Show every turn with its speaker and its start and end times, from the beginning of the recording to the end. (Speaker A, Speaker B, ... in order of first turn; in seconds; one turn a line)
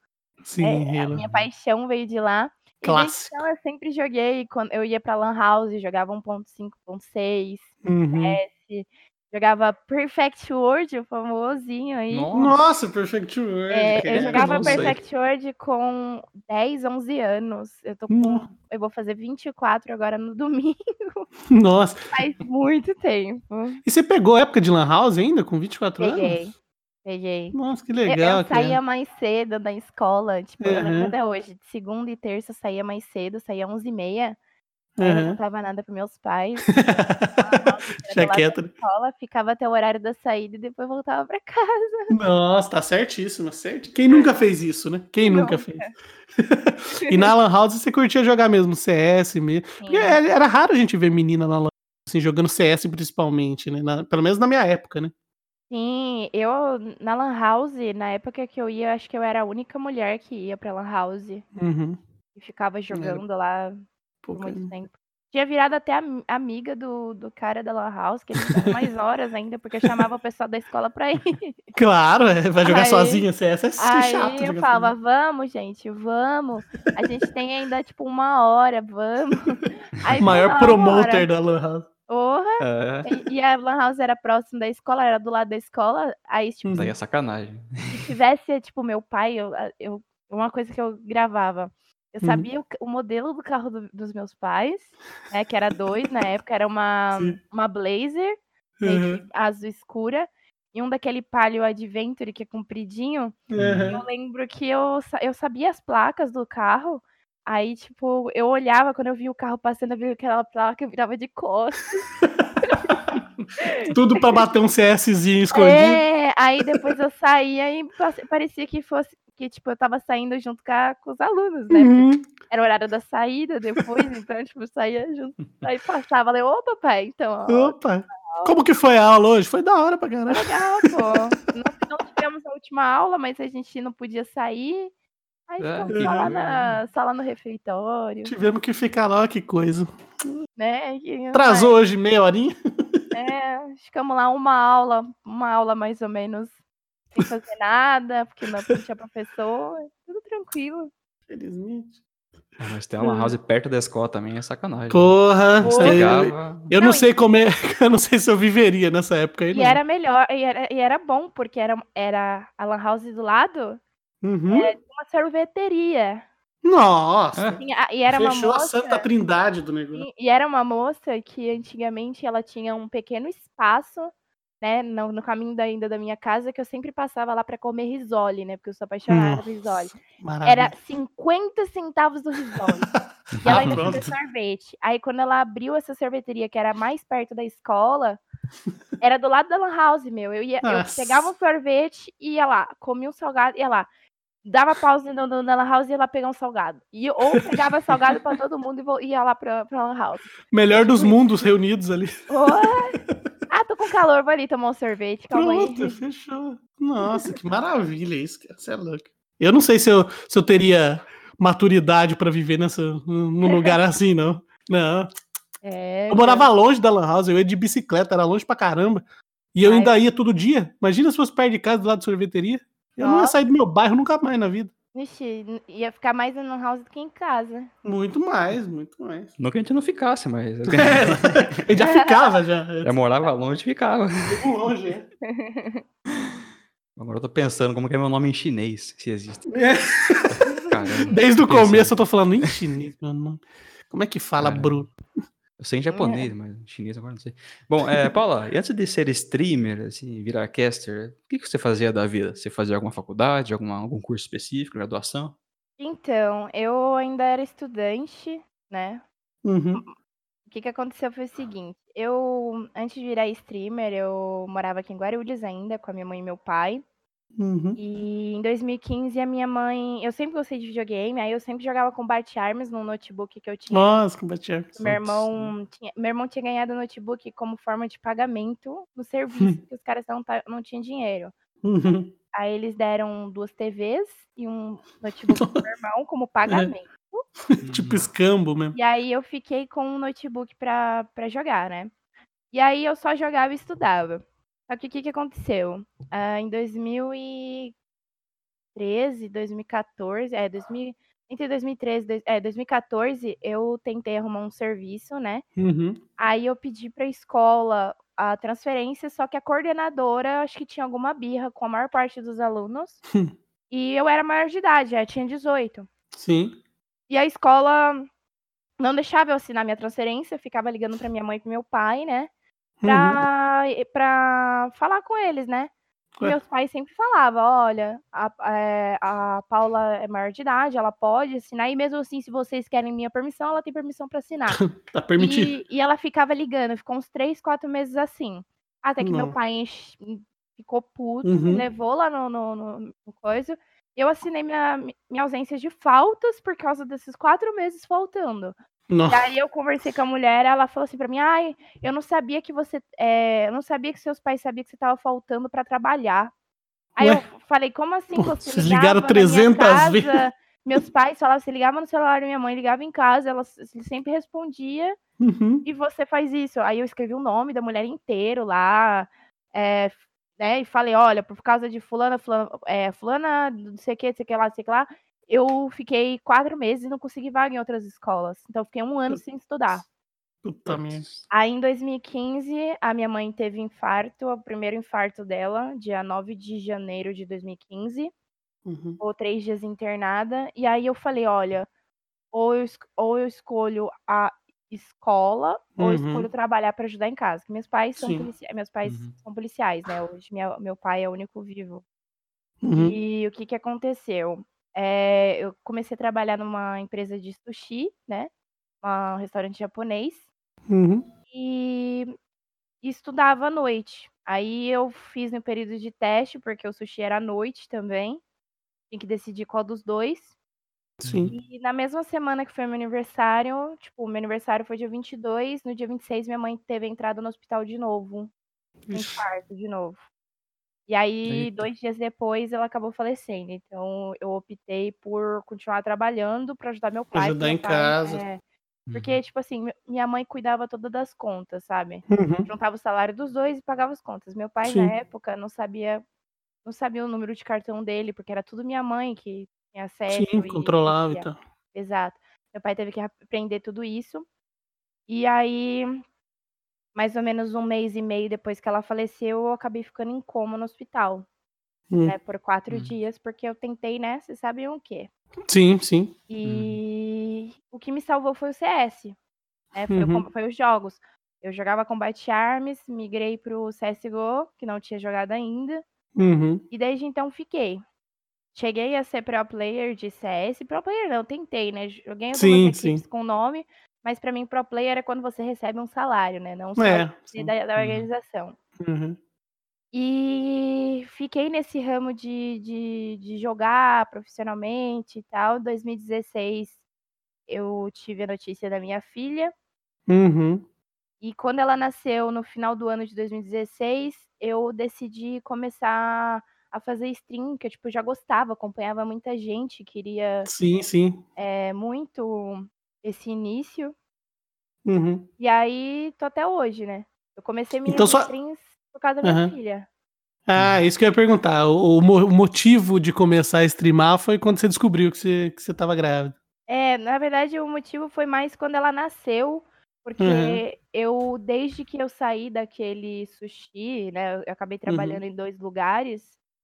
Speaker A: 0.4-1.2
Speaker B: 0.6-12.4
Speaker C: 1.1-1.5
Speaker A: 2.8-3.4
Speaker A: 7.8-8.4
Speaker C: 12.1-12.6
Speaker A: 12.3-15.0
Speaker B: 13.7-21.3
Speaker C: 14.1-15.0
Speaker A: 18.1-18.5
Speaker A: 21.5-22.1
Speaker B: 22.1-23.8
Speaker A: 23.8-26.4
Speaker B: 26.0-34.4
Speaker A: 27.5-28.8
Speaker A: 30.6-31.1
Speaker A: 35.0-35.4
Speaker B: 35.0-42.1
Speaker A: 36.7-38.7
Speaker A: 42.1-55.1
Speaker B: 45.2-45.9
Speaker B: 49.8-50.2
Speaker B: 55.7-61.4
Speaker A: 61.5-62.0
Speaker B: 62.3-63.8
Speaker A: 62.9-63.2
Speaker A: 64.2-64.7
Speaker B: 64.3-71.5
Speaker A: 71.7-74.9
Speaker B: 72.6-73.2
Speaker B: 73.8-81.3
Speaker C: 80.2-80.4
Speaker A: 80.2-81.9
Speaker B: 82.1-86.8
Speaker C: 82.6-83.1
Speaker A: 86.6-86.9
Speaker C: 86.7-88.0
Speaker B: 87.9-112.1
Speaker A: 92.2-92.5
Speaker A: 98.8-99.2
Speaker A: 103.5-104.0
Speaker C: 103.6-104.0
Speaker B: 112.6-112.9
Speaker B: 113.6-113.9
Speaker A: 113.8-116.0
Speaker B: 115.5-128.5
Speaker A: 121.7-122.3
Speaker A: 127.5-130.9
Speaker B: 130.3-134.9
Speaker B: 135.5-138.3
Speaker C: 135.6-136.8
Speaker A: 135.9-136.3
Speaker A: 138.2-140.3
Speaker B: 140.6-141.7
Speaker A: 141.3-143.0
Speaker B: 143.1-146.5
Speaker B: 147.1-150.9
Speaker A: 151.3-152.0
Speaker C: 152.6-156.7
Speaker B: 153.0-153.3
Speaker A: 154.9-159.8
Speaker B: 155.6-156.1
Speaker B: 156.7-157.1
Speaker B: 159.5-163.8
Speaker A: 164.2-164.7
Speaker B: 164.5-166.2
Speaker A: 166.6-170.1
Speaker C: 167.3-167.6
Speaker B: 167.6-169.1
Speaker B: 169.9-182.9
Speaker A: 179.1-179.4
Speaker A: 180.0-180.7
Speaker A: 182.5-184.1
Speaker C: 183.4-183.8
Speaker B: 183.4-188.2
Speaker B: 189.0-193.9
Speaker A: 190.6-191.3
Speaker B: 194.4-201.1
Speaker A: 200.5-202.5
Speaker B: 202.3-203.0
Speaker B: 203.5-206.0
Speaker A: 205.3-215.1
Speaker B: 213.5-213.7
Speaker B: 215.6-216.5
Speaker A: 216.1-224.7
Speaker B: 219.6-220.0
Speaker B: 223.0-223.4
Speaker B: 224.9-227.7
Speaker A: 227.8-229.3
Speaker C: 229.4-231.6
Speaker A: 230.7-232.9
Speaker B: 231.8-232.1
Speaker C: 232.8-234.4
Speaker A: 234.3-235.1
Speaker B: 235.2-235.8
Speaker C: 236.9-239.5
Speaker A: 239.5-240.3
Speaker C: 240.3-242.5
Speaker B: 240.4-241.1
Speaker A: 241.1-244.9
Speaker C: 244.4-244.8
Speaker C: 245.6-255.4
Speaker B: 245.9-246.3
Speaker B: 255.8-259.0
Speaker A: 259.4-259.8
Speaker B: 260.4-266.8
Speaker A: 267.4-267.8
Speaker B: 267.8-273.9
Speaker A: 273.7-275.2
Speaker B: 274.8-281.3
Speaker A: 281.6-282.1
Speaker B: 282.3-287.2
Speaker A: 287.5-288.8
Speaker C: 287.6-288.1
Speaker B: 288.7-291.9
Speaker B: 292.5-297.7
Speaker B: 298.7-305.4
Speaker A: 305.6-306.0
Speaker B: 306.2-313.0
Speaker B: 313.7-315.9
Speaker A: 316.1-316.6
Speaker B: 317.1-318.1
Speaker B: 318.8-322.3
Speaker A: 322.8-323.2
Speaker B: 322.8-334.6
Speaker A: 334.6-335.5
Speaker B: 335.2-348.5
Speaker A: 339.0-339.3
Speaker A: 341.2-341.6
Speaker A: 348.9-349.3
Speaker B: 349.1-356.3
Speaker B: 356.9-364.9
Speaker A: 358.1-360.2
Speaker A: 365.2-365.6
Speaker B: 365.6-379.8
Speaker A: 380.4-381.0
Speaker C: 380.6-381.3
Speaker B: 381.3-388.1
Speaker A: 388.6-389.0
Speaker B: 389.0-391.7
Speaker B: 392.3-401.8
Speaker A: 395.8-396.3
Speaker A: 398.0-398.3
Speaker C: 398.8-399.1
Speaker A: 402.6-402.9
Speaker B: 402.7-408.3
Speaker B: 408.8-410.2
Speaker A: 410.7-411.1
Speaker B: 411.3-412.1
Speaker B: 412.8-418.2
Speaker B: 418.9-420.3
Speaker A: 421.0-421.3
Speaker C: 421.0-421.4
Speaker B: 421.3-428.3
Speaker A: 428.9-429.2
Speaker B: 428.9-430.0
Speaker B: 430.9-438.4
Speaker C: 431.3-431.7
Speaker A: 437.1-438.2
Speaker C: 438.9-439.2
Speaker B: 438.9-446.0
Speaker A: 442.1-442.5
Speaker A: 444.6-444.9
Speaker B: 446.6-454.2
Speaker A: 450.1-451.4
Speaker B: 455.1-456.0
Speaker B: 456.9-461.2
Speaker A: 461.9-462.1
Speaker B: 462.0-465.1
Speaker A: 465.5-466.1
Speaker B: 466.3-469.1
Speaker C: 466.4-466.8
Speaker B: 469.7-475.8
Speaker A: 469.9-470.2
Speaker A: 476.1-476.6
Speaker B: 476.7-477.8
Speaker B: 478.5-488.6
Speaker A: 482.3-483.0
Speaker A: 486.8-487.5
Speaker C: 487.8-488.1
Speaker A: 488.8-489.2
Speaker B: 489.9-496.8
Speaker B: 497.5-499.5
Speaker A: 500.1-500.6
Speaker B: 501.2-510.5
Speaker A: 510.4-511.2
Speaker B: 511.4-513.9
Speaker A: 514.8-515.3
Speaker B: 515.4-519.9
Speaker A: 517.9-518.3
Speaker A: 519.2-519.5
Speaker A: 520.5-526.4
Speaker B: 526.7-536.4
Speaker A: 530.2-530.6
Speaker A: 534.9-535.2